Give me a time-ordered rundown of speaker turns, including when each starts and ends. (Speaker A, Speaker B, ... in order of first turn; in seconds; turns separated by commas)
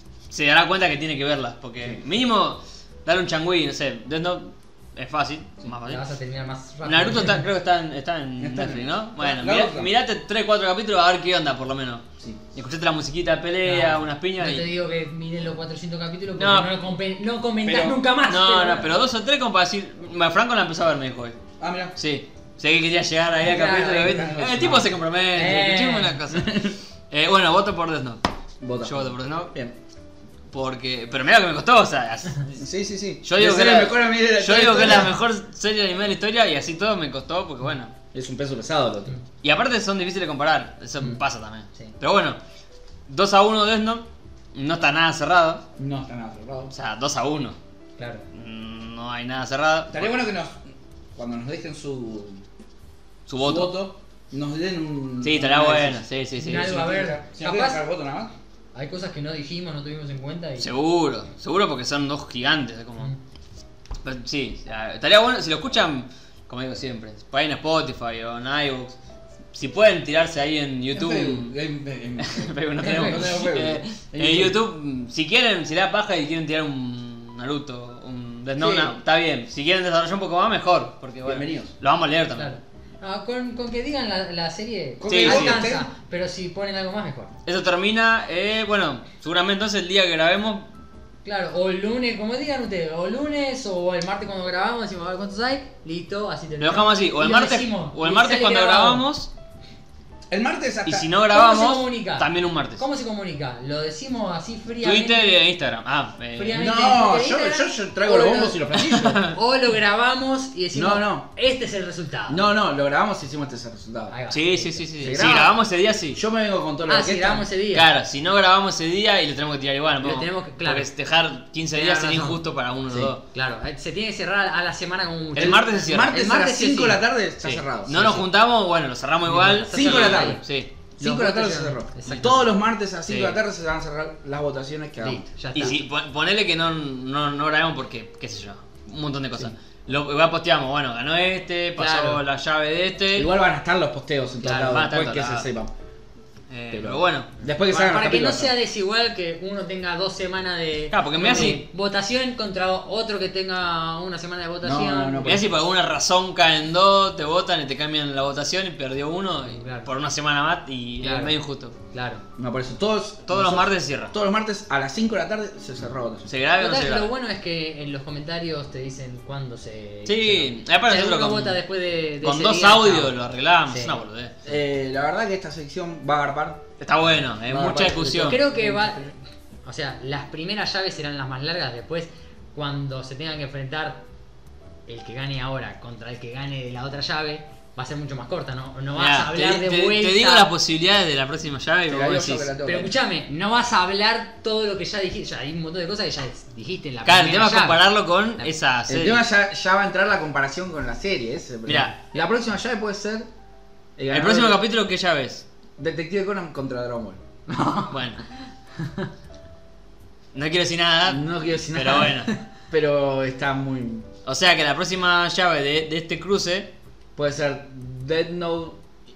Speaker A: 0.3-6.0, Speaker B: 5.8-7.4, Speaker A: 6.8-14.7, Speaker C: 8.4-9.9, Speaker B: 13.6-19.0, Speaker A: 16.4-16.7, Speaker C: 17.6-18.0, Speaker A: 18.2-21.4, Speaker C: 21.6-22.0, Speaker A: 22.0-28.2, Speaker B: 23.4-24.8, Speaker C: 24.0-24.9, Speaker B: 25.3-26.2, Speaker C: 26.3-26.7, Speaker C: 28.6-29.7, Speaker A: 28.8-29.5, Speaker A: 30.5-32.6, Speaker C: 32.6-35.2, Speaker A: 33.2-37.9, Speaker C: 38.1-39.2, Speaker A: 39.4-42.4, Speaker A: 43.1-45.6, Speaker C: 45.8-46.7, Speaker A: 46.7-47.5, Speaker B: 48.0-48.2, Speaker A: 48.3-50.1, Speaker C: 49.9-52.4, Speaker A: 53.3-53.7, Speaker C: 53.4-58.3, Speaker A: 55.2-56.8, Speaker B: 56.4-57.8, Speaker B: 58.7-60.7, Speaker A: 60.6-63.1, Speaker A: 64.0-69.0, Speaker A: 69.5-71.5, Speaker C: 70.9-74.6, Speaker A: 72.2-82.5, Speaker B: 72.8-73.3, Speaker B: 78.6-78.9, Speaker C: 81.2-81.7, Speaker B: 82.3-87.3, Speaker C: 85.0-85.9, Speaker A: 85.1-85.6, Speaker A: 87.5-90.7, Speaker B: 91.2-99.0, Speaker A: 96.6-99.3, Speaker C: 100.3-101.1, Speaker A: 100.8-102.8, Speaker B: 101.3-105.4, Speaker A: 104.8-106.6, Speaker B: 106.3-108.6, Speaker C: 106.5-109.3, Speaker A: 108.9-109.3, Speaker B: 109.3-112.4, Speaker C: 110.7-111.3, Speaker C: 112.3-114.2, Speaker B: 114.1-115.5, Speaker A: 114.3-116.2, Speaker C: 115.0-115.6, Speaker C: 116.1-117.5, Speaker B: 116.9-117.9, Speaker A: 117.7-123.2, Speaker B: 120.0-120.9, Speaker B: 121.7-127.0, Speaker A: 125.3-126.2, Speaker C: 125.4-128.2, Speaker A: 127.4-130.7, Speaker B: 129.3-130.4, Speaker C: 129.7-130.4, Speaker C: 131.0-135.2, Speaker B: 131.0-132.5, Speaker A: 133.1-133.4, Speaker B: 135.0-135.8, Speaker A: 135.5-143.3, Speaker B: 141.8-142.2, Speaker C: 143.1-145.7, Speaker B: 144.4-144.8, Speaker A: 144.6-145.5, Speaker A: 146.5-147.3, Speaker C: 146.7-148.5, Speaker B: 147.7-155.4, Speaker A: 150.9-151.6, Speaker C: 151.2-151.6, Speaker C: 154.6-155.5, Speaker A: 155.2-161.7, Speaker B: 159.5-159.9, Speaker B: 161.0-161.4, Speaker B: 161.9-162.2, Speaker C: 162.4-166.3, Speaker A: 163.3-164.1, Speaker A: 166.2-167.1, Speaker B: 166.6-173.2, Speaker A: 170.1-171.6, Speaker A: 172.2-174.3, Speaker B: 173.7-174.0, Speaker C: 174.4-176.8, Speaker A: 176.8-178.4, Speaker C: 177.4-179.1, Speaker B: 178.2-184.1, Speaker B: 184.9-190.5, Speaker A: 188.9-192.5, Speaker C: 191.9-192.9, Speaker B: 192.6-197.8, Speaker A: 197.0-199.2, Speaker C: 198.9-203.3, Speaker A: 201.7-202.1, Speaker C: 204.0-204.6, Speaker A: 204.1-205.4, Speaker C: 205.8-207.2, Speaker B: 207.5-208.2, Speaker A: 207.9-208.2, Speaker B: 208.8-209.1, Speaker A: 210.3-212.3, Speaker C: 211.0-214.1, Speaker A: 214.2-216.7, Speaker C: 217.2-218.8